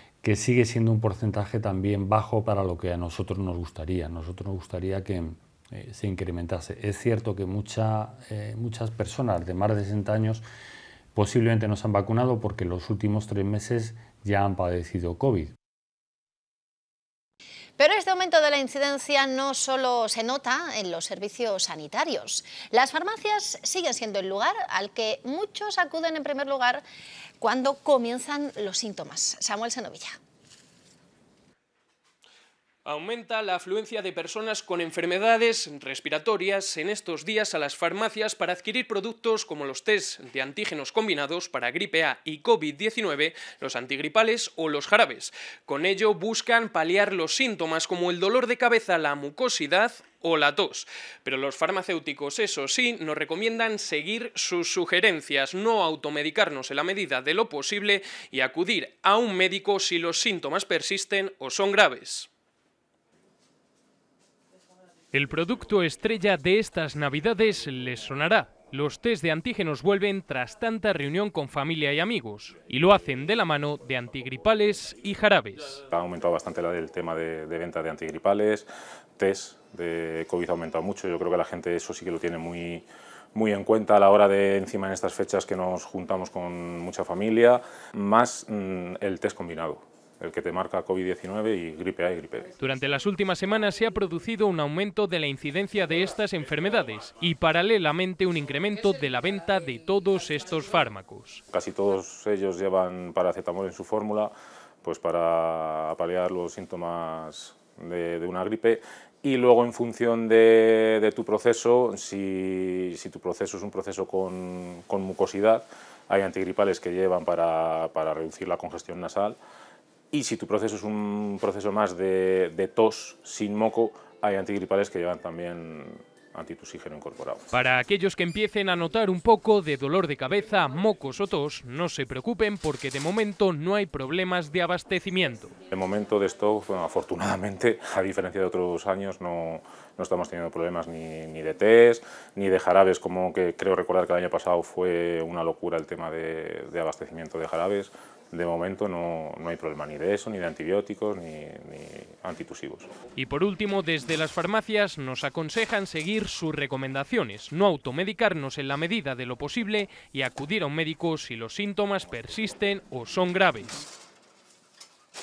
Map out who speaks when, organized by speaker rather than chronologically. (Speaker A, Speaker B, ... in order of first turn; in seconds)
Speaker A: 0.2-10.4, 11.1-15.5
Speaker B: 17.8-26.8, 27.4-30.1
Speaker C: 32.9-62.3, 65.1-75.8, 92.6-101.4, 127.5-135.5, 153.2-163.8
Speaker D: 75.9-92.5, 101.5-119.4, 120.1-127.5, 135.7-152.9